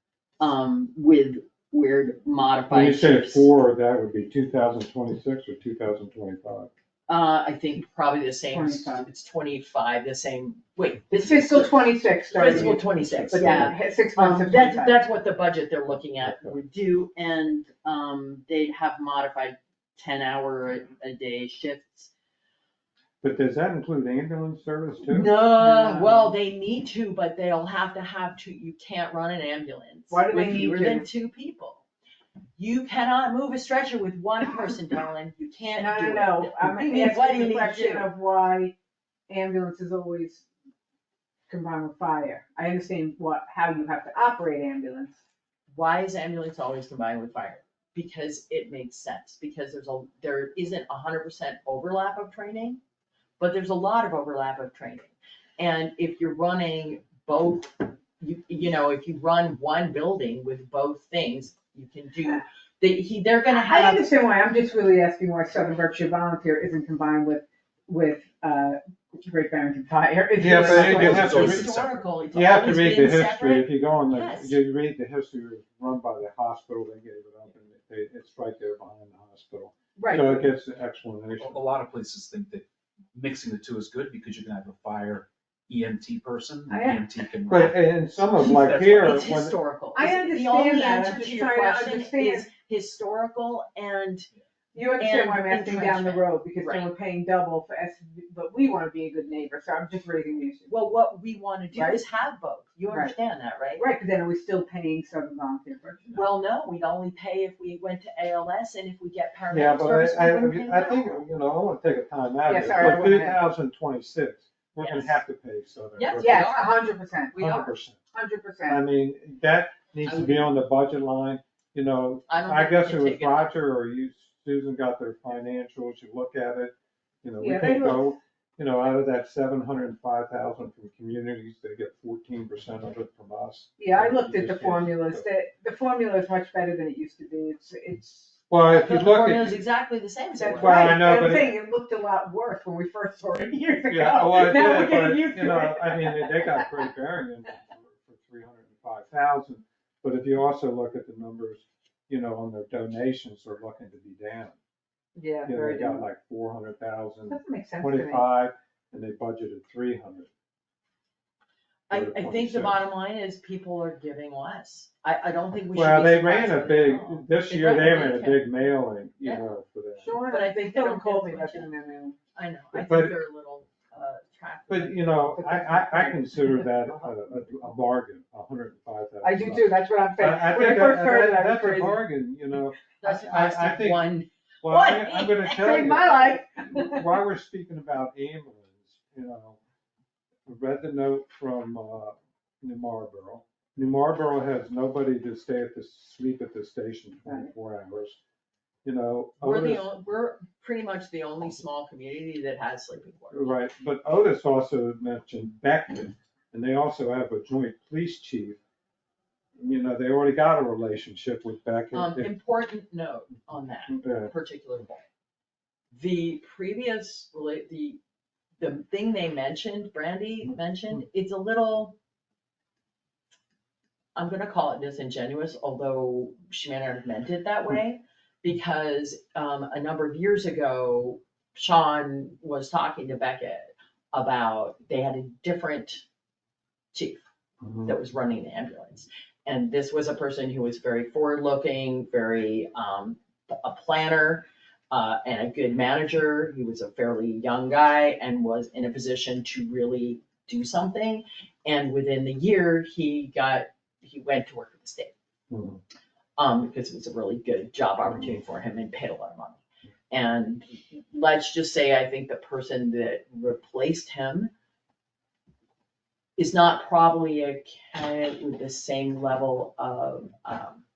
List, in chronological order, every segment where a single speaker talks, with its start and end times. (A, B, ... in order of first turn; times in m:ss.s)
0:00.4-0:03.5 A
0:02.7-0:06.7 B
0:07.1-0:22.1 A
0:08.5-0:09.1 C
0:11.1-0:15.0 C
0:13.2-0:13.7 B
0:16.2-0:16.6 B
0:23.2-0:25.3 B
0:25.1-0:31.8 A
0:25.6-0:26.3 C
0:30.1-0:31.1 C
0:32.6-0:38.1 A
0:35.8-0:38.7 C
0:39.3-0:40.4 C
0:41.5-0:45.2 C
0:45.7-0:52.8 A
0:53.4-1:04.1 A
1:03.5-1:11.5 C
1:10.4-1:11.8 B
1:10.4-1:12.2 D
1:10.6-1:14.6 A
1:12.3-1:21.6 B
1:20.0-1:20.5 C
1:21.4-1:29.3 D
1:26.7-1:27.0 C
1:27.5-1:29.6 B
1:29.0-1:34.3 A
1:30.0-1:32.5 C
1:34.7-1:40.7 C
1:35.0-1:36.9 A
1:40.7-1:43.8 A
1:41.7-1:42.0 C
1:42.9-1:43.2 C
1:43.8-1:46.2 C
1:46.1-1:51.2 A
1:49.5-1:56.6 B
1:52.5-1:53.4 C
1:54.8-1:55.2 A
1:56.0-1:57.8 A
1:56.2-1:57.5 C
1:57.4-1:58.0 B
1:58.1-1:58.8 C
1:58.7-2:15.3 B
2:00.0-2:00.6 A
2:02.3-2:03.5 A
2:07.4-2:08.1 C
2:13.8-2:18.4 C
2:18.5-2:19.6 B
2:18.7-2:21.1 A
2:20.4-2:26.8 C
2:20.6-2:21.6 B
2:23.9-2:34.6 B
2:35.2-2:36.1 C
2:35.5-2:40.3 B
2:37.3-2:38.3 C
2:41.9-2:49.4 A
2:41.9-2:42.8 B
2:45.7-2:50.1 B
2:50.0-2:52.2 C
2:50.2-2:51.7 A
2:52.4-2:55.2 A
2:52.7-2:53.2 B
2:54.7-3:09.6 B
2:55.3-2:56.7 C
2:59.2-3:02.0 C
3:03.0-3:06.0 A
3:05.5-3:07.0 C
3:10.5-3:18.2 B
3:18.8-3:19.8 B
3:19.4-3:23.6 A
3:23.3-3:28.6 B
3:29.6-3:32.3 B
3:31.9-3:35.0 A
3:33.9-3:34.3 B
3:35.9-3:38.0 A
3:38.6-3:42.0 A
3:44.2-3:56.0 A
3:56.9-3:57.2 A
3:57.6-3:57.9 B
3:57.8-4:15.1 A
4:15.5-4:15.8 B
4:16.4-4:19.6 A
4:20.1-4:24.5 A
4:26.4-4:30.8 A